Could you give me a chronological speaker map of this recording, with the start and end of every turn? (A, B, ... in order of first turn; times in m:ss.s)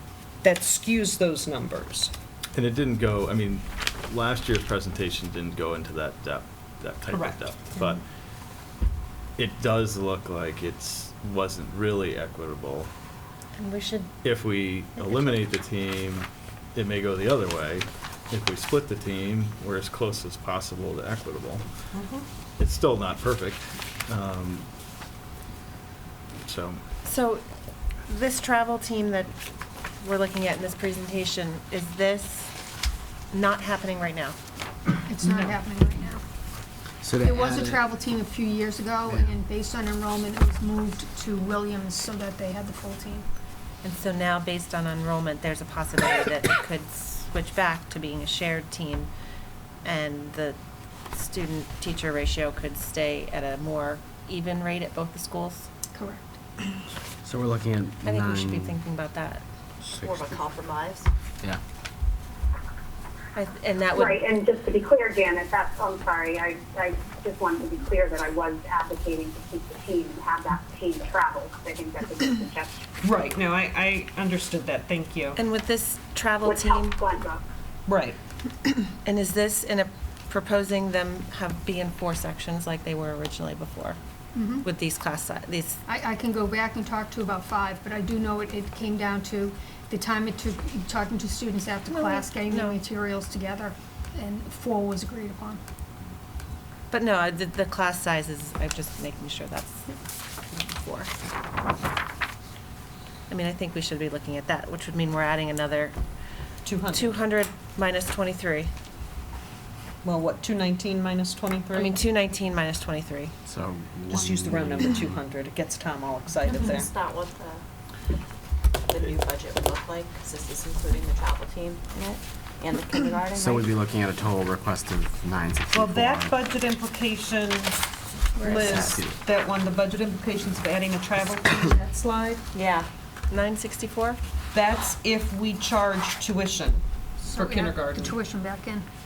0:00.4-0:02.1 A
0:02.5-0:08.0 B
0:07.1-0:07.4 A
0:09.4-0:12.9 B
0:13.6-0:14.1 C
0:14.2-0:21.6 B
0:15.0-0:15.4 C
0:21.9-0:22.2 A
0:22.6-0:24.7 B
0:26.4-0:26.8 B
0:27.0-0:27.4 C
0:28.1-0:29.3 C
0:30.0-0:32.5 C
0:33.3-0:34.4 C
0:35.1-0:36.2 D
0:35.2-0:35.6 A
0:37.0-0:37.8 E
0:37.2-0:43.2 D
0:39.1-0:39.3 E
0:43.8-0:49.1 C
0:49.8-0:50.6 C
0:51.1-0:55.7 C
0:55.9-0:56.3 D
0:57.2-0:58.8 E
0:58.0-0:59.4 C
0:59.8-1:00.5 E
1:00.0-1:01.1 F
1:03.3-1:04.2 C
1:03.9-1:12.8 G
1:13.0-1:15.4 A
1:15.4-1:17.0 C
1:16.4-1:17.4 G
1:17.9-1:18.2 A
1:19.0-1:24.0 C
1:24.3-1:24.6 D
1:24.6-1:25.8 C
1:25.9-1:35.6 D
1:31.9-1:32.8 C
1:36.9-1:40.0 C
1:40.5-1:41.1 C
1:43.3-1:45.9 C
1:46.6-1:47.2 A
1:46.9-1:48.7 C
1:50.0-1:52.0 A
1:51.7-1:53.3 C
1:53.4-1:55.1 E
1:54.1-1:56.9 A
1:56.6-1:57.6 F
1:58.9-2:03.7 F
2:03.3-2:06.4 E
2:05.7-2:07.8 A
2:08.4-2:12.4 A
2:08.5-2:09.2 E
2:12.5-2:12.9 F
2:13.3-2:14.2 C
2:14.5-2:18.2 A
2:17.2-2:18.8 D